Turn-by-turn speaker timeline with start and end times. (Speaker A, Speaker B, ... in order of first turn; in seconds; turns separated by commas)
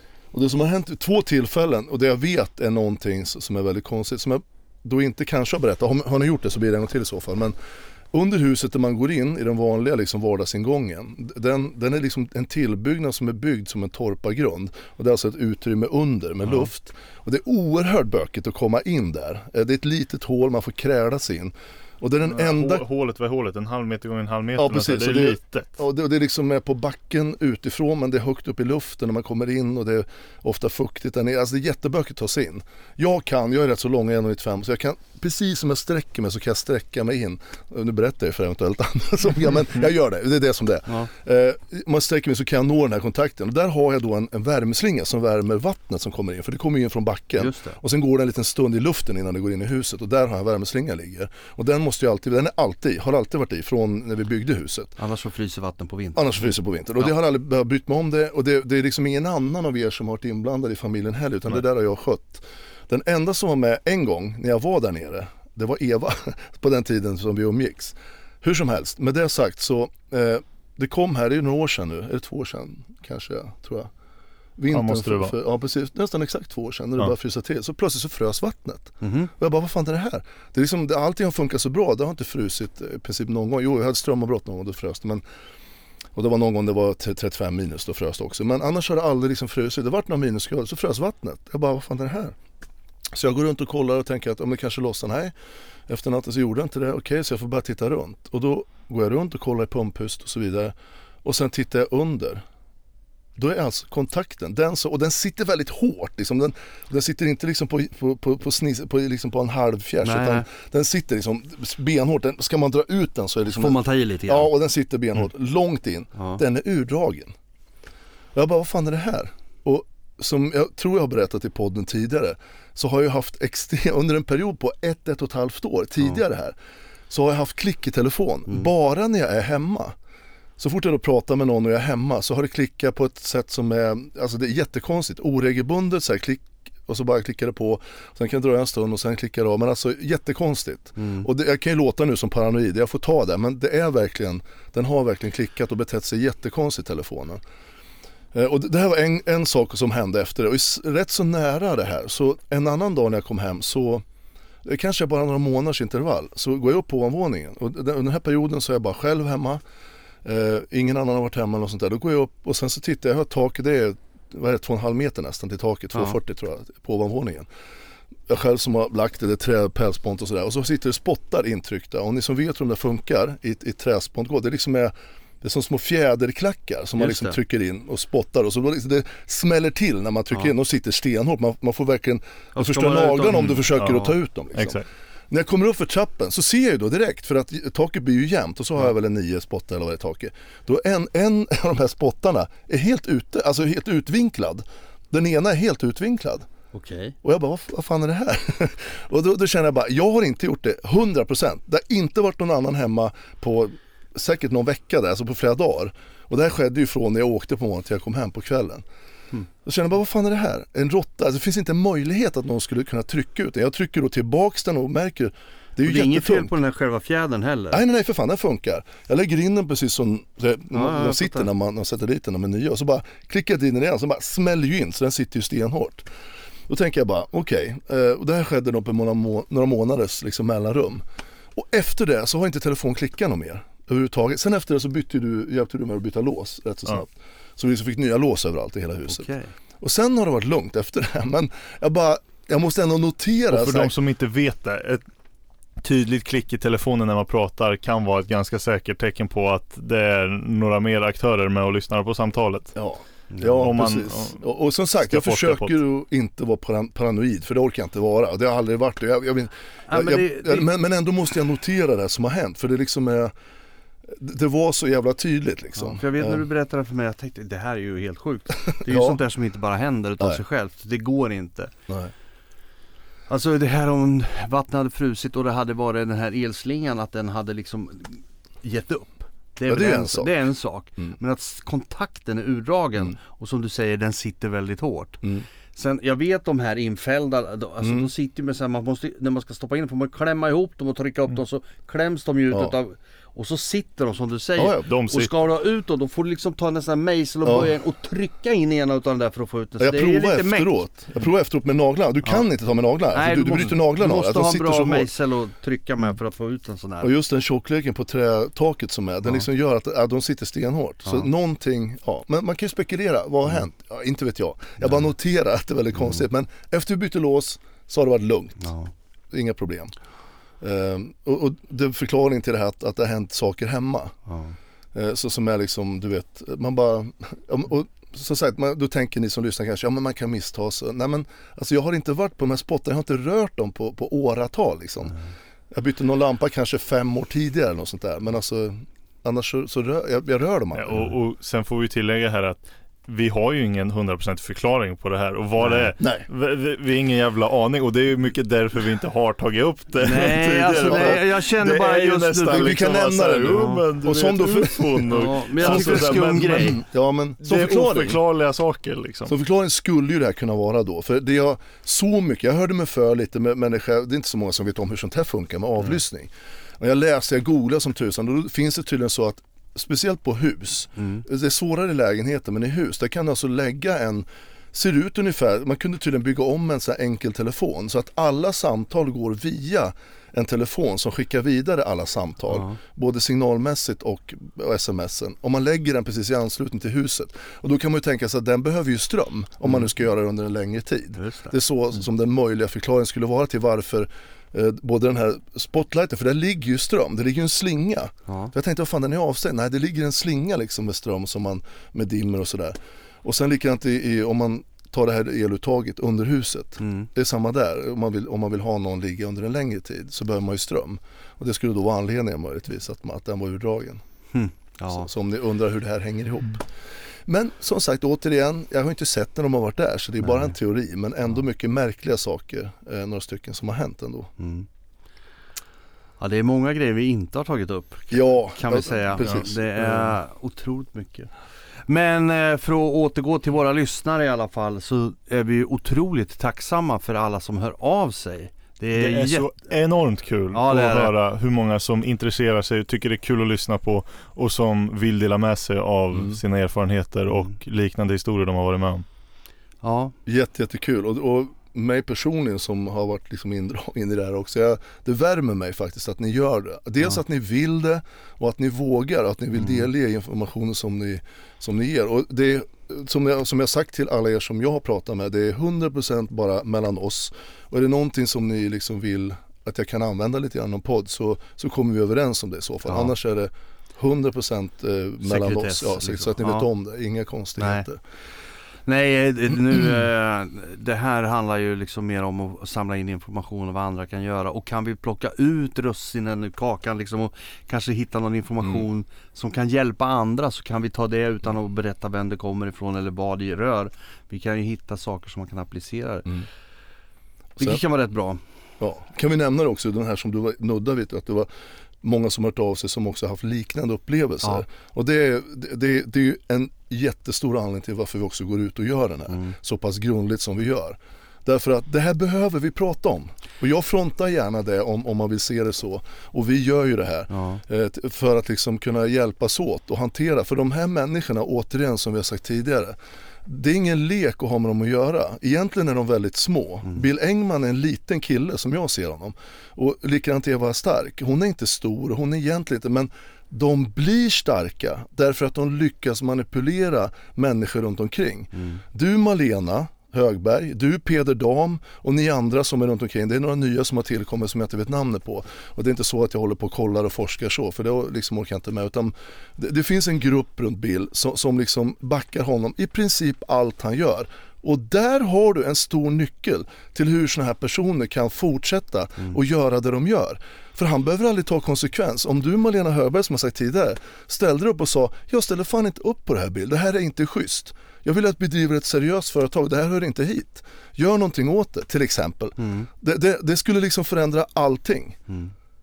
Speaker A: 0.3-7.5, Speaker A: 8.1-22.8, Speaker B: 22.3-25.8, Speaker A: 24.6-54.9, Speaker C: 47.4-47.8, Speaker C: 55.0-56.5, Speaker A: 56.1-73.9, Speaker A: 74.6-85.2, Speaker B: 74.7-75.4, Speaker C: 79.0-79.3, Speaker A: 86.1-92.3, Speaker A: 93.1-95.3, Speaker A: 95.9-102.4, Speaker A: 103.3-117.3, Speaker C: 110.0-110.4, Speaker C: 113.5-114.5, Speaker A: 118.3-126.5, Speaker A: 127.1-129.9, Speaker A: 130.6-147.4, Speaker C: 141.0-141.3, Speaker A: 148.3-154.0, Speaker A: 154.6-159.6, Speaker A: 160.2-167.5, Speaker A: 168.3-196.5, Speaker C: 177.0-177.3, Speaker C: 182.5-183.7, Speaker B: 183.8-184.8, Speaker C: 196.7-197.2, Speaker A: 197.2-208.8, Speaker A: 209.6-216.5, Speaker C: 215.8-217.8, Speaker A: 217.7-226.1, Speaker C: 220.7-221.5, Speaker A: 226.7-243.9, Speaker C: 239.1-239.5, Speaker B: 243.5-245.0, Speaker B: 245.8-252.7, Speaker A: 252.7-263.3, Speaker B: 253.6-254.4, Speaker B: 255.1-255.8, Speaker C: 259.9-260.7, Speaker A: 264.1-266.4, Speaker C: 265.8-271.7, Speaker A: 268.7-269.2, Speaker C: 273.3-300.8, Speaker A: 279.7-280.3, Speaker A: 287.8-288.1, Speaker A: 294.6-294.9, Speaker B: 294.8-295.3, Speaker A: 297.4-297.7, Speaker A: 299.8-305.1, Speaker C: 303.1-307.1, Speaker A: 307.0-318.7, Speaker C: 314.8-315.1, Speaker C: 315.9-316.2, Speaker C: 318.6-318.9, Speaker A: 319.3-319.9, Speaker A: 320.6-324.1, Speaker C: 324.3-324.6, Speaker A: 324.9-335.2, Speaker A: 335.7-341.0, Speaker B: 340.7-356.8, Speaker C: 345.6-345.9, Speaker A: 346.0-346.2, Speaker C: 350.0-352.9, Speaker A: 350.1-351.2, Speaker A: 352.5-358.2, Speaker C: 353.5-353.8, Speaker C: 355.1-356.8, Speaker B: 357.4-359.3, Speaker A: 359.3-414.0, Speaker C: 371.0-371.2, Speaker C: 382.5-382.8, Speaker C: 391.2-391.5, Speaker C: 398.3-398.5, Speaker C: 406.8-407.1, Speaker C: 414.3-415.1, Speaker A: 414.9-416.6, Speaker A: 417.2-424.3, Speaker C: 420.2-420.5, Speaker C: 424.4-424.7, Speaker C: 426.2-431.3, Speaker A: 428.1-430.1, Speaker C: 431.9-439.5, Speaker B: 438.9-449.0, Speaker C: 440.5-441.1, Speaker A: 446.1-446.4, Speaker C: 449.8-450.1, Speaker A: 450.2-478.0, Speaker C: 459.5-459.9, Speaker C: 472.9-473.1, Speaker C: 475.2-476.7, Speaker C: 477.6-477.9, Speaker C: 478.9-496.3, Speaker C: 497.6-498.4, Speaker A: 498.8-501.5, Speaker A: 502.0-575.2, Speaker C: 509.3-509.5, Speaker C: 517.3-517.6, Speaker C: 538.5-538.8, Speaker C: 572.6-572.9